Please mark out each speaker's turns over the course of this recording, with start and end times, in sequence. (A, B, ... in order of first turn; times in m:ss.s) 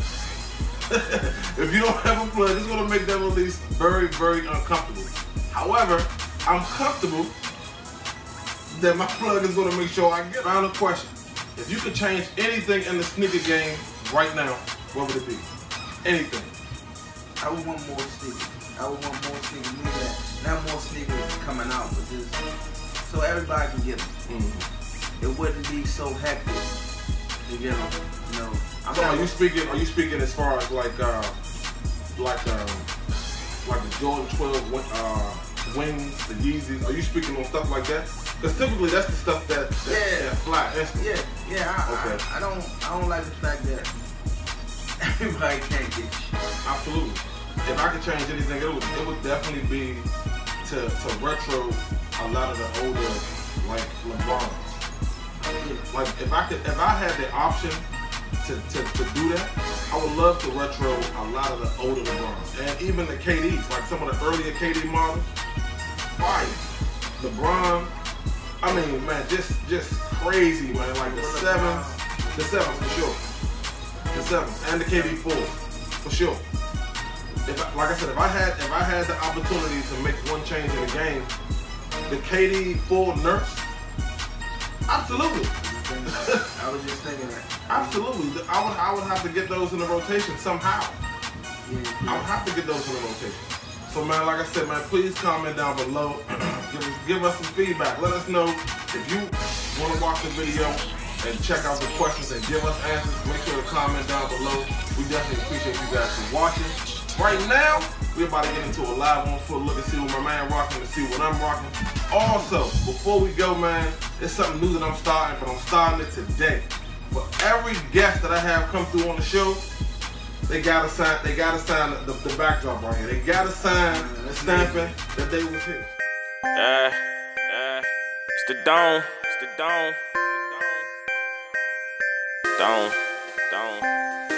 0:00.9-0:07.4 A
0:08.7-0:15.5 A
0:16.0-0:16.5 A
0:17.4-0:22.4 B
0:23.0-0:24.1 B
0:24.3-0:24.7 A
0:25.2-0:26.7 B
0:27.4-0:29.4 B
0:28.9-0:31.4 A
0:32.2-0:32.9 A
0:33.6-0:41.1 A
0:39.9-0:40.4 B
0:41.0-0:43.9 B
0:41.9-0:42.2 A
0:45.0-0:46.4 B
0:46.6-0:50.1 A
0:50.6-0:54.8 A
0:55.5-0:55.9 B
0:55.9-0:57.8 A
0:58.4-1:05.3 A
1:06.2-1:06.6 A
1:07.2-1:07.9 A
1:08.6-1:13.2 A
1:11.0-1:13.0 B
1:14.1-1:16.4 A
1:14.9-1:15.2 B
1:17.4-1:21.3 A
1:22.1-1:23.7 A
1:24.9-1:25.5 A
1:25.1-1:28.0 B
1:26.2-1:26.4 A
1:27.7-1:31.0 A
1:31.6-1:32.3 B
1:32.1-1:59.6 A
2:00.5-2:06.0 A
2:03.7-2:05.0 B
2:06.5-2:10.9 C
2:12.6-2:13.0 C
2:13.5-2:13.9 C